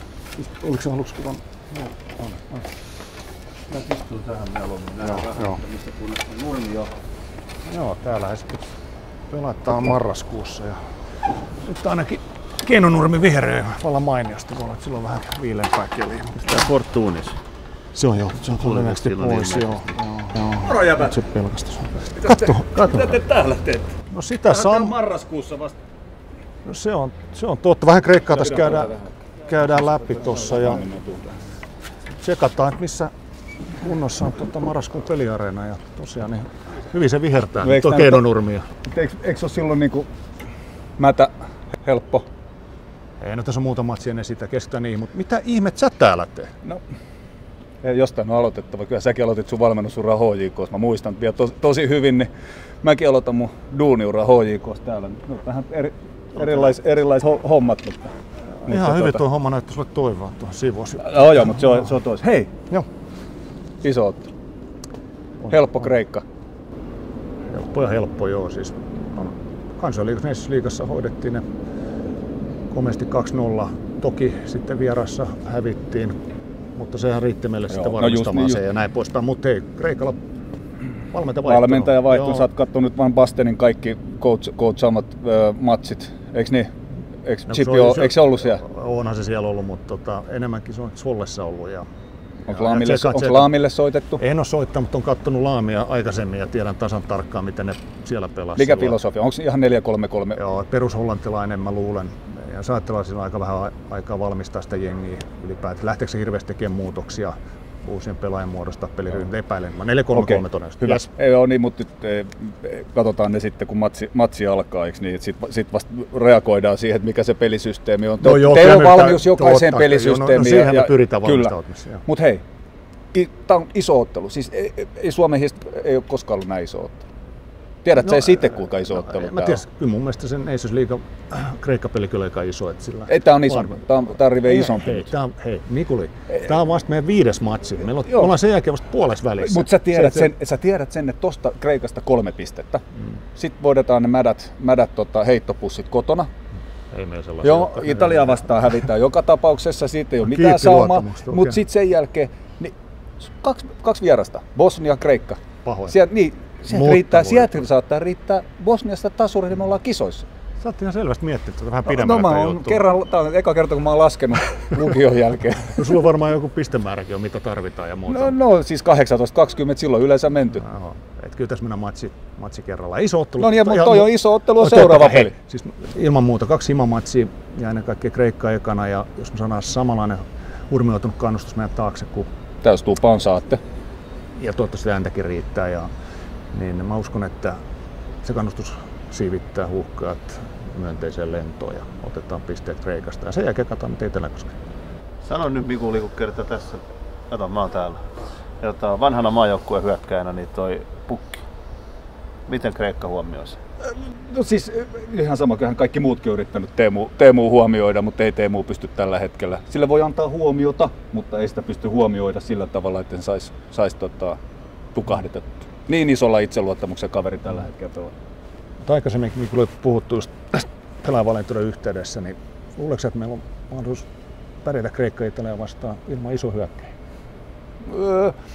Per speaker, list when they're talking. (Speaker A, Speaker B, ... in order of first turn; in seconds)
Speaker A: 0.4-2.7, 5.0-5.6, 7.7-8.6, 9.3-10.9, 11.5-16.7, 17.9-23.2, 24.1-24.9, 26.6-30.9, 32.2-33.1, 33.8-38.6, 43.2-46.5, 56.4-56.7, 58.6-61.9, 65.4-65.7, 67.5-71.4, 72.7-76.2, 76.7-80.2, 81.1-82.5, 87.5-91.8, 92.5-93.5, 94.2-99.0, 100.3-111.1, 118.2-122.0, 127.9-133.8, 134.4-140.3, 146.9-148.8, 150.2-151.6, 155.6-155.9, 156.7-157.7, 160.6-162.8, 165.7-168.4, 170.6-182.3, 184.3-185.9, 186.5-187.6, 188.2-194.6, 218.8-224.1, 224.6-226.9
Speaker B: 3.7-6.9, 16.5-17.4, 18.6-19.7, 195.2-198.0, 198.6-201.4, 202.5-203.6
Speaker C: 20.6-21.2, 22.1-23.9, 24.5-25.8, 28.3-29.1, 30.0-31.4, 37.6-38.2, 38.9-40.1, 41.0-42.3, 47.8-52.3, 52.8-58.1, 58.6-59.2, 61.0-62.5, 63.8-64.3, 65.5-66.2, 77.7-78.6, 81.4-86.7, 87.2-88.6, 92.5-94.2, 98.5-100.4, 110.1-121.5, 122.0-122.4, 123.1-127.0, 127.8-129.6, 133.1-135.1, 138.1-138.3, 139.4-142.8, 143.3-146.3, 147.4-152.7, 153.3-160.3, 161.8-166.0, 168.1-170.6, 173.4-175.3, 182.6-183.6, 203.8-214.4, 214.9-218.1, 227.8-228.4